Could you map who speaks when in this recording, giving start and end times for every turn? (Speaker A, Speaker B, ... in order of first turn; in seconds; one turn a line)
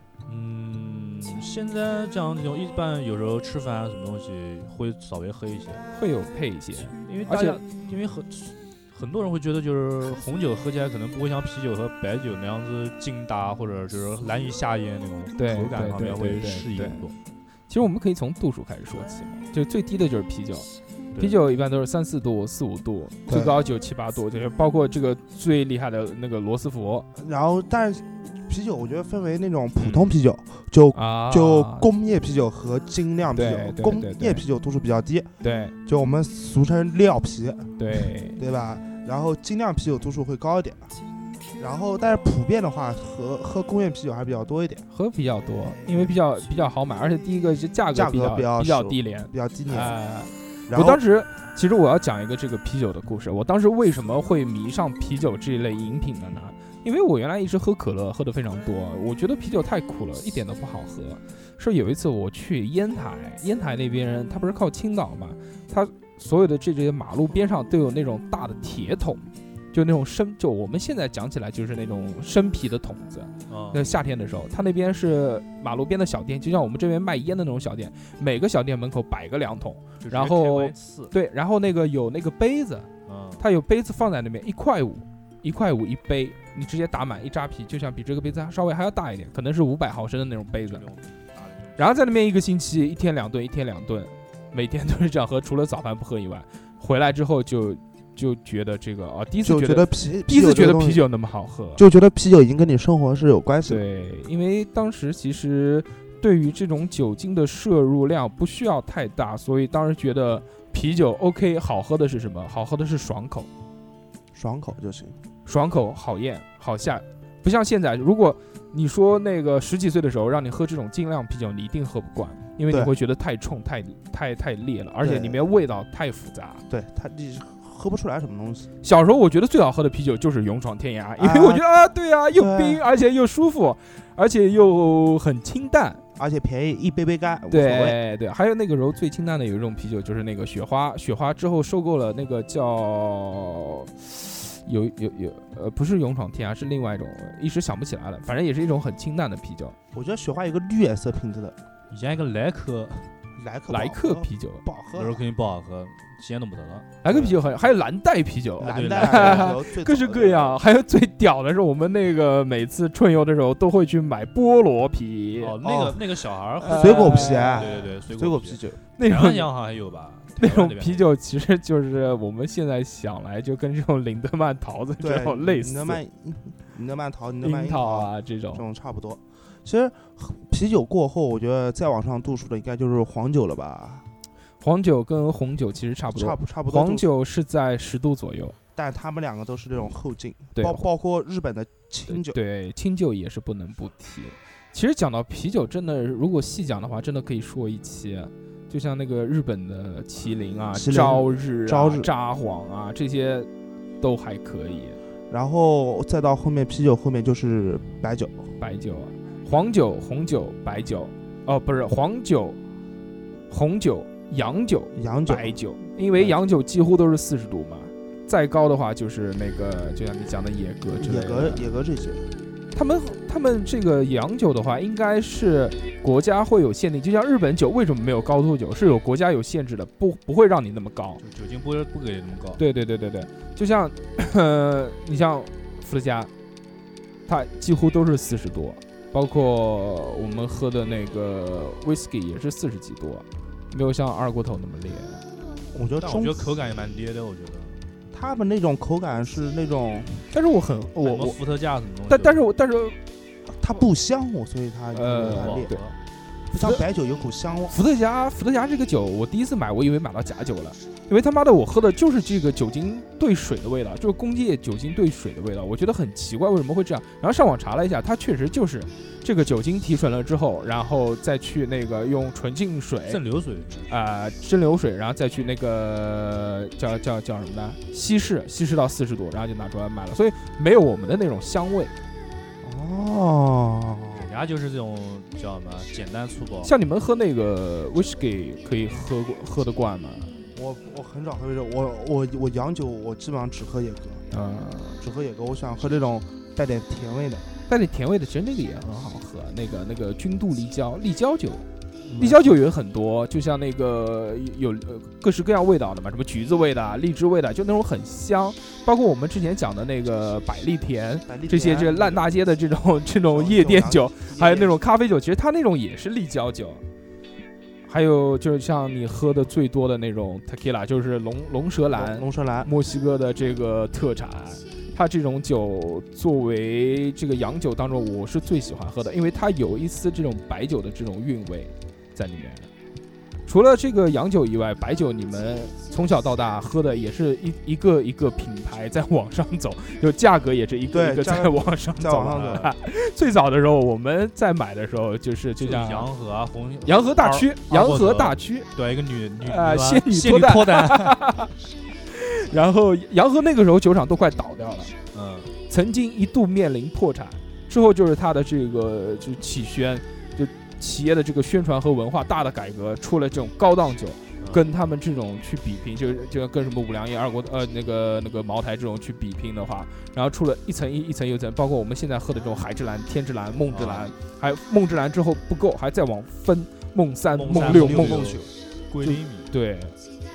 Speaker A: 0.3-5.8
Speaker B: 6.0-7.6
Speaker A: 6.9-17.1
Speaker B: 15.4-17.1
Speaker B: 17.7-20.7
Speaker B: 21.2-27.1
Speaker C: 23.3-23.6
Speaker C: 27.2-35.3
Speaker B: 29.8-30.1
Speaker B: 30.9-31.9
Speaker B: 33.4-34.4
Speaker B: 35.4-35.8
Speaker C: 35.9-37.7
Speaker B: 37.8-38.4
Speaker C: 38.4-40.9
Speaker C: 41.6-44.9
Speaker B: 44.9-82.9
Speaker C: 47.9-50.0
Speaker C: 50.7-51.0
Speaker A: 73.5-73.9
Speaker A: 80.0-81.1
Speaker A: 83.1-83.4
Speaker B: 83.4-90.8
Speaker A: 90.7-92.0
Speaker B: 91.8-101.8
Speaker C: 99.4-101.0
Speaker C: 101.8-103.8
Speaker B: 103.7-113.5
Speaker C: 114.3-115.2
Speaker B: 115.5-126.6
Speaker C: 125.0-125.4
Speaker C: 126.7-128.7
Speaker B: 128.8-136.0
Speaker C: 131.2-131.6
Speaker C: 132.4-132.8
Speaker C: 136.2-138.0
Speaker B: 137.5-149.8
Speaker C: 149.9-151.6
Speaker A: 151.9-153.1
Speaker C: 153.4-155.2
Speaker B: 153.7-154.6
Speaker A: 155.0-156.9
Speaker B: 157.0-165.6
Speaker C: 157.1-157.4
Speaker C: 158.6-160.6
Speaker A: 158.7-159.6
Speaker A: 165.4-171.1
Speaker C: 165.6-166.0
Speaker B: 166.6-167.7
Speaker C: 166.7-168.8
Speaker B: 169.0-169.5
Speaker B: 170.4-176.0
Speaker C: 175.0-184.1
Speaker B: 177.4-178.7
Speaker B: 184.6-188.6
Speaker C: 186.1-187.1
Speaker C: 188.8-192.4
Speaker B: 190.6-190.9
Speaker B: 192.1-203.5
Speaker C: 200.7-202.1
Speaker B: 204.0-205.0
Speaker C: 205.3-208.4
Speaker B: 208.6-212.6
Speaker B: 213.5-221.7
Speaker C: 214.9-215.6
Speaker C: 221.0-222.2
Speaker B: 222.7-231.2
Speaker A: 231.2-232.6
Speaker B: 232.6-236.3
Speaker B: 237.3-245.2
Speaker C: 245.7-246.5
Speaker A: 246.0-247.8
Speaker C: 248.1-250.3
Speaker B: 250.3-251.4
Speaker A: 251.0-252.5
Speaker B: 252.1-253.0
Speaker C: 253.6-255.7
Speaker B: 254.9-255.9
Speaker A: 255.2-255.9
Speaker C: 256.5-257.8
Speaker B: 257.7-273.2
Speaker A: 273.1-273.9
Speaker B: 273.9-281.9
Speaker C: 282.6-284.3
Speaker A: 284.1-286.7
Speaker B: 286.6-290.3
Speaker C: 290.6-294.2
Speaker B: 294.3-295.0
Speaker C: 295.0-297.4
Speaker B: 297.7-301.6
Speaker C: 302.1-302.6
Speaker B: 302.2-316.8
Speaker C: 311.3-312.3
Speaker C: 313.3-314.7
Speaker B: 317.9-332.7
Speaker C: 321.9-322.7
Speaker B: 333.5-346.1
Speaker C: 340.9-342.7
Speaker A: 342.3-342.7
Speaker A: 345.6-351.2
Speaker B: 346.9-348.7
Speaker B: 349.4-351.5
Speaker B: 352.1-354.9
Speaker A: 355.1-355.5
Speaker B: 355.7-378.4
Speaker A: 364.4-364.6
Speaker A: 373.7-374.1
Speaker A: 377.4-379.5
Speaker C: 377.5-378.5
Speaker B: 379.0-379.9